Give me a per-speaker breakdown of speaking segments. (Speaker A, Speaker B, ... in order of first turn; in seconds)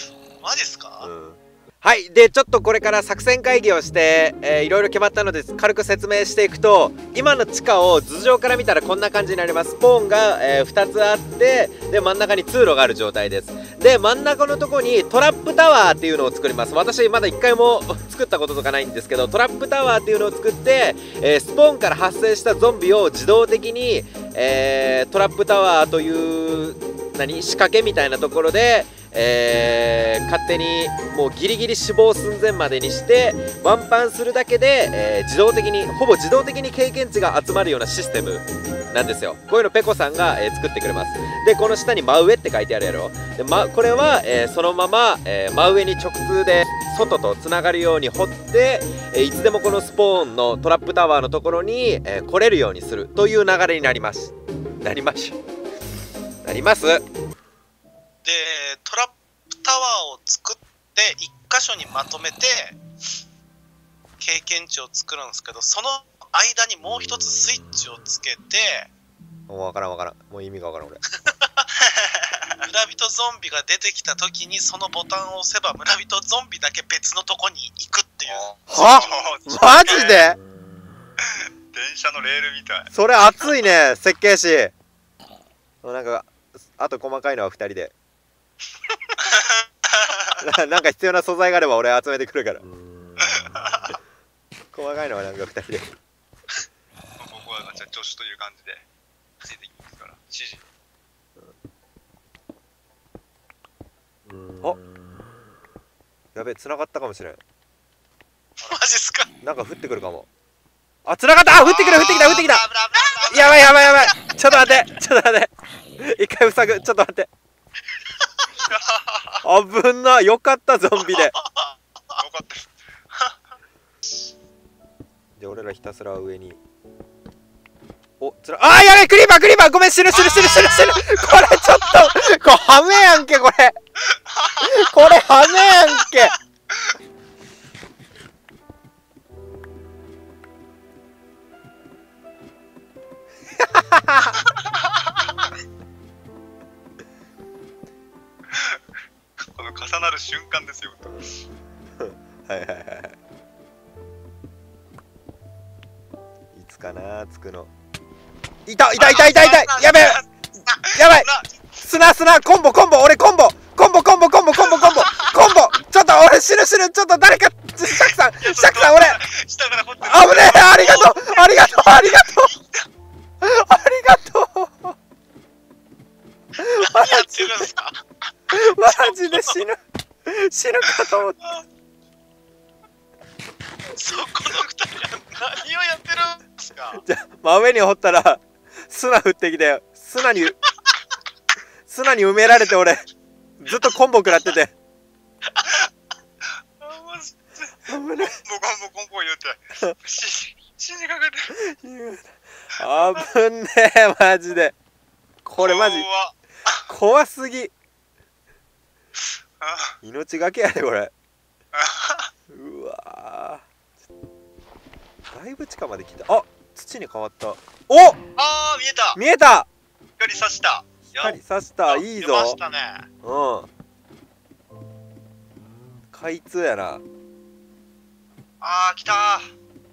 Speaker A: 0.4-1.1, 58.2-62.8, 64.2-68.9, 71.2-71.5, 72.7-79.3, 108.6-109.3, 113.0-114.8, 121.0-122.2, 130.2-131.0, 171.4-172.0, 176.7-179.6, 183.9-187.0, 195.5-195.8, 221.9-223.1
Speaker B: 1.0-55.4, 56.4-57.0, 69.5-71.0, 78.7-80.4, 82.9-84.7, 85.8-87.9, 90.4-92.6, 94.7-95.9, 106.3-107.4, 109.4-110.3, 111.0-112.6, 113.3-117.3, 119.4-121.3, 125.4-126.6, 128.2-133.7, 134.6-136.3, 143.6-144.3, 152.0-153.2, 156.5-157.7, 158.7-160.2, 160.9-161.3, 161.8-169.2, 170.0-172.5, 173.4-174.9, 176.6-177.6, 178.5-181.6, 187.0-190.6, 191.9-193.1, 193.6-194.7, 197.8-198.4, 201.5-204.7, 205.4-206.1, 206.9-207.7, 210.0-211.1, 212.5-213.6, 215.3-218.2, 219.1-219.7, 221.1-222.6, 223.2-223.7, 226.1-227.0
Speaker C: 71.8-72.7, 78.3-80.2, 81.4-82.9, 89.2-90.3, 93.2-94.0, 97.2-98.8, 99.4-100.6, 111.6-113.9, 118.5-119.4, 122.2-123.3, 134.1-134.8, 144.3-145.3, 148.5-148.8, 149.5-151.4, 158.9-161.6, 168.4-171.3, 172.0-172.5, 196.8-201.5, 202.9-203.2, 205.6-206.8, 209.6-209.9, 211.7-212.3, 218.4-219.2, 220.2-221.4, 228.6-229.5